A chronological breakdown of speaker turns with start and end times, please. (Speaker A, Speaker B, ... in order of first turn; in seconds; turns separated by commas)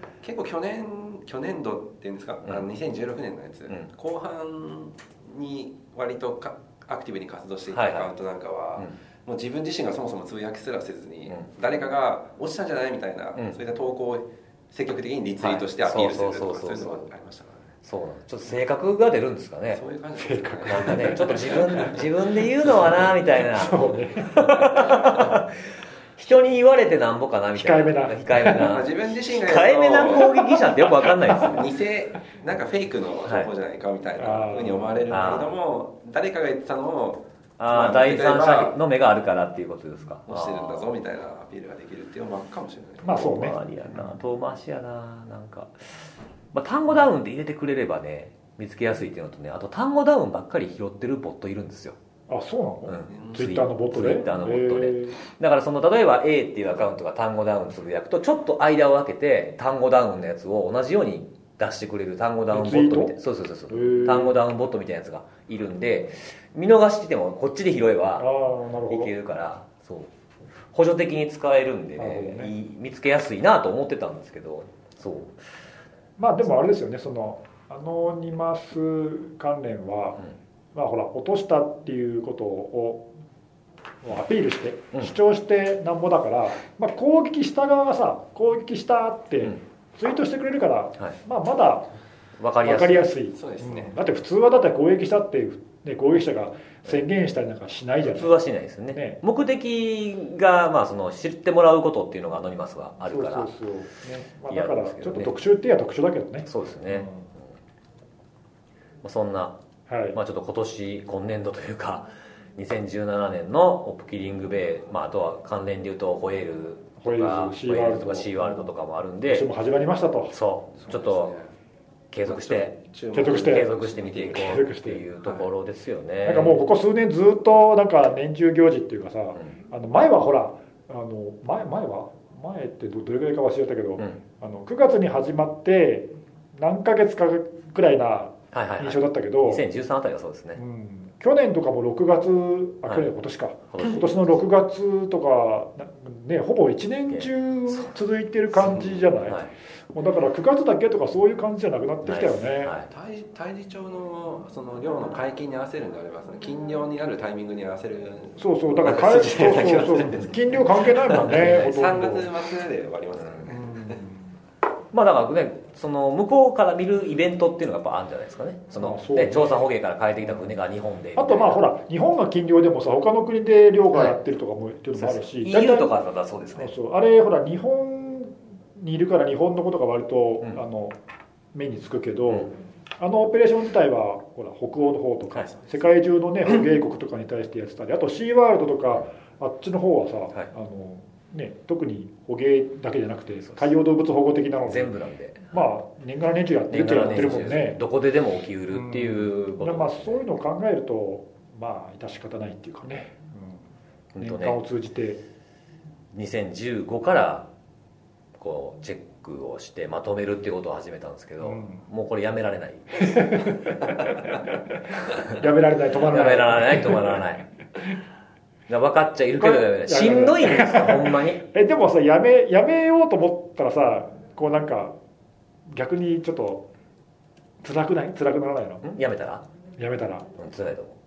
Speaker A: 0.2-17.7, Speaker B: 7.7-8.1, Speaker B: 15.4-17.1, Speaker B: 17.8-19.8, Speaker A: 19.7-23.1, Speaker C: 20.2-21.9, Speaker B: 20.7-31.7, Speaker C: 23.4-25.3, Speaker C: 27.5-28.7, Speaker A: 28.4-38.8, Speaker C: 31.3-31.6, Speaker C: 34.2-35.0, Speaker B: 35.1-35.5, Speaker B: 37.6-40.9, Speaker A: 40.3-43.3, Speaker C: 43.0-43.6, Speaker B: 43.1-52.0, Speaker C: 52.3-55.2, Speaker B: 52.9-68.3, Speaker A: 53.1-53.5, Speaker C: 62.5-63.1, Speaker C: 63.7-64.4, Speaker C: 68.2-69.1, Speaker B: 68.9-70.1, Speaker B: 70.7-75.4, Speaker C: 72.0-72.5, Speaker C: 76.2-80.2, Speaker C: 80.7-83.0, Speaker C: 84.0-91.8, Speaker B: 92.4-93.1, Speaker C: 92.6-98.3, Speaker A: 93.3-93.9, Speaker B: 98.0-103.5, Speaker C: 98.9-99.2, Speaker C: 103.0-107.3, Speaker B: 104.5-105.3, Speaker B: 106.5-107.1, Speaker B: 109.0-109.6, Speaker C: 109.9-110.2, Speaker B: 110.1-119.5, Speaker C: 117.0-118.7, Speaker C: 119.2-120.4, Speaker B: 120.3-121.3, Speaker A: 120.8-121.5, Speaker B: 122.1-126.6, Speaker A: 122.2-124.6, Speaker C: 123.1-125.0, Speaker C: 126.2-139.6, Speaker B: 138.5-140.6, Speaker C: 140.6-152.8, Speaker B: 143.7-144.3, Speaker B: 147.1-147.9, Speaker B: 148.6-149.5, Speaker B: 152.0-152.9, Speaker A: 152.9-164.0, Speaker C: 158.4-162.3, Speaker B: 161.1-161.7, Speaker C: 163.5-164.2, Speaker B: 164.9-171.6, Speaker C: 168.8-169.6, Speaker C: 171.2-175.9, Speaker B: 174.9-176.7, Speaker C: 176.6-180.9, Speaker C: 181.5-194.9, Speaker B: 194.7-195.7, Speaker C: 195.5-197.8, Speaker B: 196.7-200.2, Speaker C: 198.7-203.6, Speaker B: 204.1-204.6, Speaker C: 204.2-205.2, Speaker B: 206.1-207.5, Speaker B: 208.3-213.7, Speaker C: 211.4-211.8, Speaker C: 213.0-217.2, Speaker B: 215.9-217.4, Speaker B: 218.7-221.4, Speaker C: 219.4-224.9, Speaker C: 225.7-226.6, Speaker C: 227.6-228.9, Speaker B: 228.8-229.4, Speaker C: 229.8-230.3, Speaker B: 230.4-231.0